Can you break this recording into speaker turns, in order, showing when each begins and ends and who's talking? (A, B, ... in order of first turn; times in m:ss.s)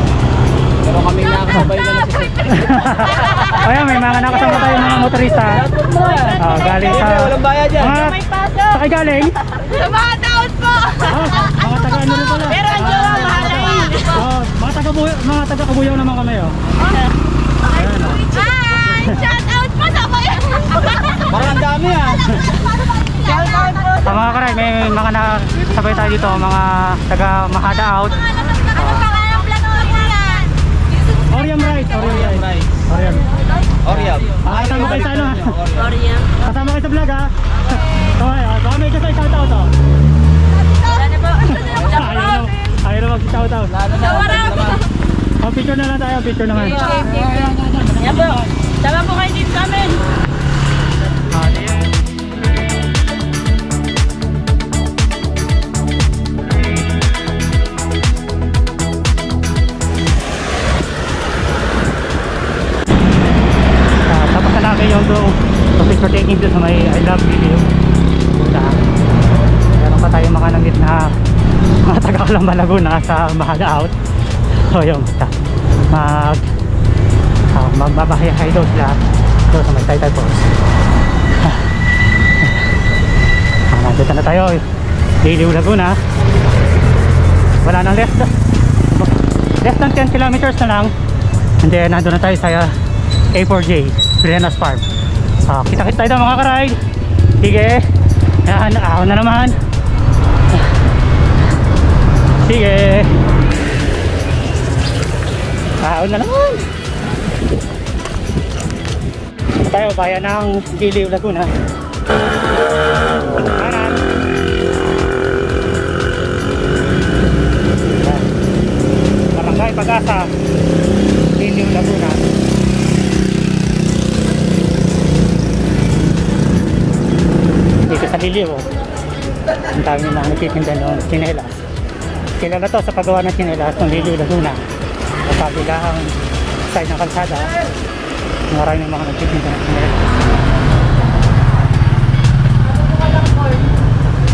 0:00.8-0:02.6 A
0:02.5-0:05.6 B
0:05.3-0:08.1 A
0:06.4-0:09.4 B
0:08.2-0:08.7 C
0:09.6-0:11.2 C
0:11.0-0:16.6 B
0:12.6-0:14.1 C
0:17.7-0:18.3 B
0:18.2-0:21.2 C
0:21.3-0:22.4 A
0:23.1-0:24.0 C
0:24.0-0:29.1 B
0:29.1-0:30.5 C
0:31.3-0:33.3 B
0:32.0-0:32.8 A
0:33.8-0:36.0 A
0:34.0-0:35.6 B
0:35.9-0:36.2 C
0:36.4-0:37.3 B
0:38.0-0:39.7 B
0:40.7-0:42.2 C
0:41.5-0:43.7 B
0:43.7-0:44.8 A
0:44.0-0:44.8 C
0:45.4-0:46.9 B
0:46.7-0:50.0 C
1:04.0-1:07.7 B
1:08.3-1:08.9 B
1:09.7-1:11.2 B
1:11.8-1:13.9 B
1:14.7-1:15.3 B
1:15.9-1:16.4 B
1:17.5-1:20.5 B
1:21.4-1:21.7 B
1:22.4-1:22.7 B
1:23.7-1:24.6 B
1:25.2-1:26.0 B
1:27.6-1:28.3 B
1:28.9-1:30.9 B
1:31.6-1:32.7 B
1:33.3-1:34.8 B
1:35.4-1:36.8 B
1:37.4-1:37.8 B
1:38.4-1:39.6 B
1:42.4-1:43.1 B
1:45.8-1:46.7 B
1:49.6-1:51.5 B
1:53.3-1:54.0 B
1:58.0-1:58.3 B
1:59.3-2:00.3 B
2:01.4-2:02.3 B
2:07.8-2:08.7 B
2:09.7-2:11.5 B
2:12.4-2:14.6 B
2:15.2-2:17.5 B
2:18.5-2:20.2 B
2:22.7-2:23.6 C